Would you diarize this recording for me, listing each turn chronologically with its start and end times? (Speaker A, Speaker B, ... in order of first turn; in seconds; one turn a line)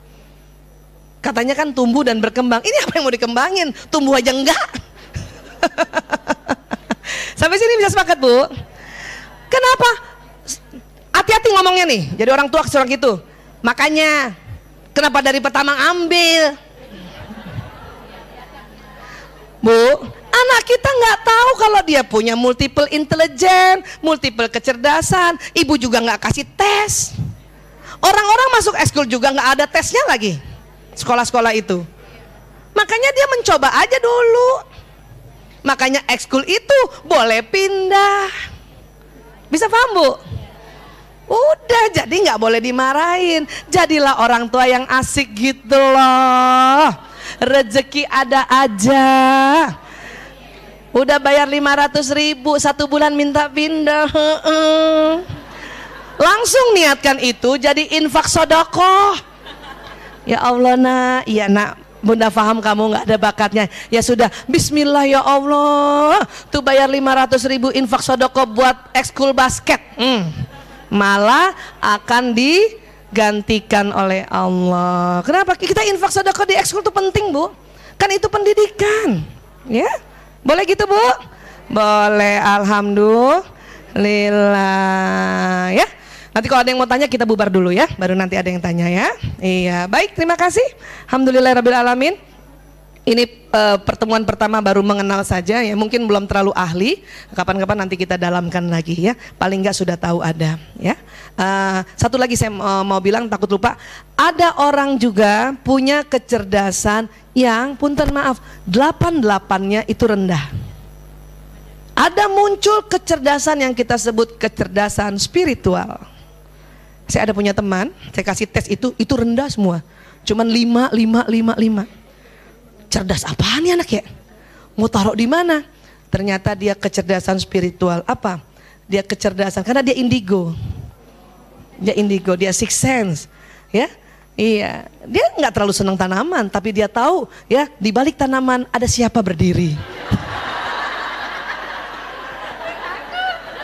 Speaker A: 1.2-4.8
Speaker A: 5.6-6.6
Speaker A: 7.4-8.5
Speaker A: 9.5-10.0
Speaker A: 11.2-14.3
Speaker A: 14.9-16.6
Speaker A: 19.6-27.2
Speaker A: 28.0-30.4
Speaker A: 31.0-31.9
Speaker A: 32.8-34.6
Speaker A: 35.6-38.3
Speaker A: 39.5-40.2
Speaker A: 41.3-49.7
Speaker A: 50.9-55.3
Speaker A: 56.2-59.2
Speaker A: 60.3-79.9
Speaker A: 80.5-81.2
Speaker A: 81.7-83.4
Speaker A: 84.0-92.2
Speaker A: 93.1-110.5
Speaker A: 112.0-116.0
Speaker A: 117.1-121.9
Speaker A: 122.9-124.0
Speaker A: 124.8-130.5
Speaker A: 131.8-139.8